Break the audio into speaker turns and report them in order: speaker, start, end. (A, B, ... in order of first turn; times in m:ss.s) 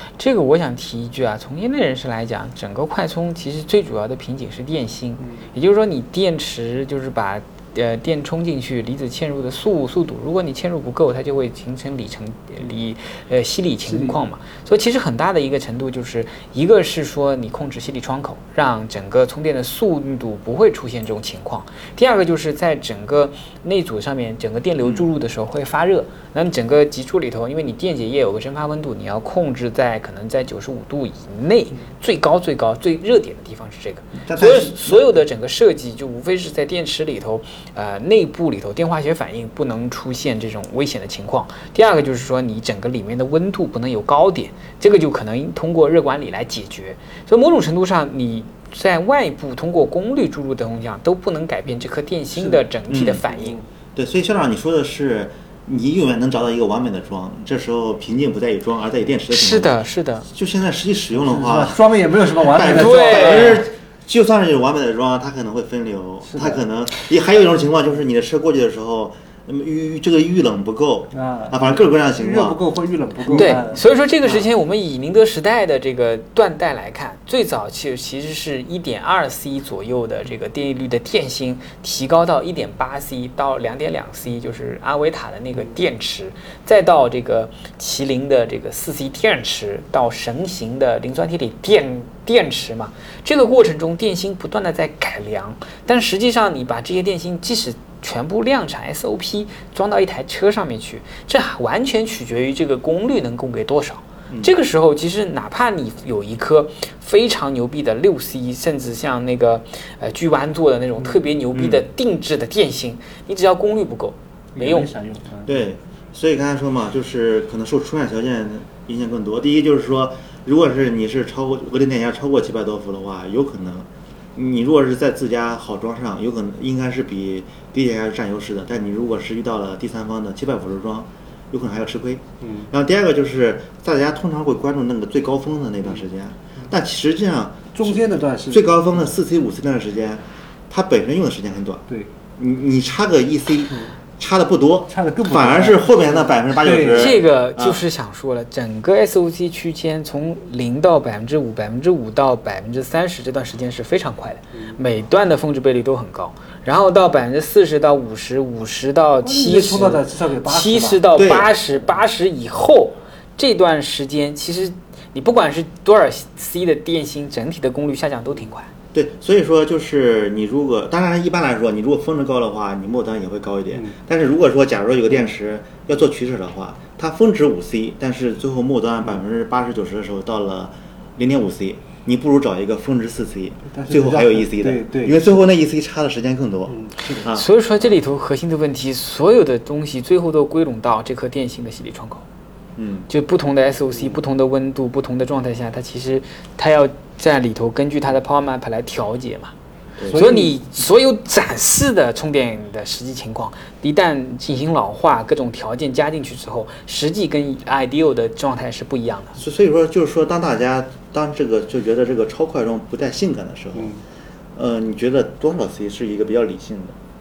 0:00.2-0:53.6 A
0:05.2-0:05.5 B
0:13.9-0:14.2 B
0:24.8-0:25.1 C
0:34.2-0:35.1 C
0:52.3-0:52.7 B
0:52.9-0:53.2 C
0:53.3-0:53.6 B
0:54.0-1:01.8 C
0:59.3-1:00.3 A
1:01.1-1:03.6 B
1:02.4-1:12.6 C
1:02.7-1:03.6 A
1:06.2-1:06.6 B
1:11.1-1:14.4 B
1:13.3-1:54.9 A
1:51.5-1:51.8 C
1:54.6-1:55.6 B
1:55.5-2:21.8 C
2:12.4-2:12.7 B
2:17.7-2:19.1 B
2:22.4-2:27.8 C
2:24.9-2:27.1 B
2:26.9-2:48.7 A
2:34.5-2:34.8 B
2:39.2-2:41.0 B
2:41.1-2:41.5 C
2:48.9-3:07.5 C
3:03.7-3:05.4 B
3:06.7-3:07.3 B
3:07.2-3:12.2 A
3:12.8-3:13.1 C
3:13.1-3:19.5 A
3:20.0-3:20.2 C
3:20.1-3:20.6 B
3:20.1-3:29.4 A
3:29.4-3:33.9 C
3:33.8-3:34.0 B
3:34.6-3:37.0 C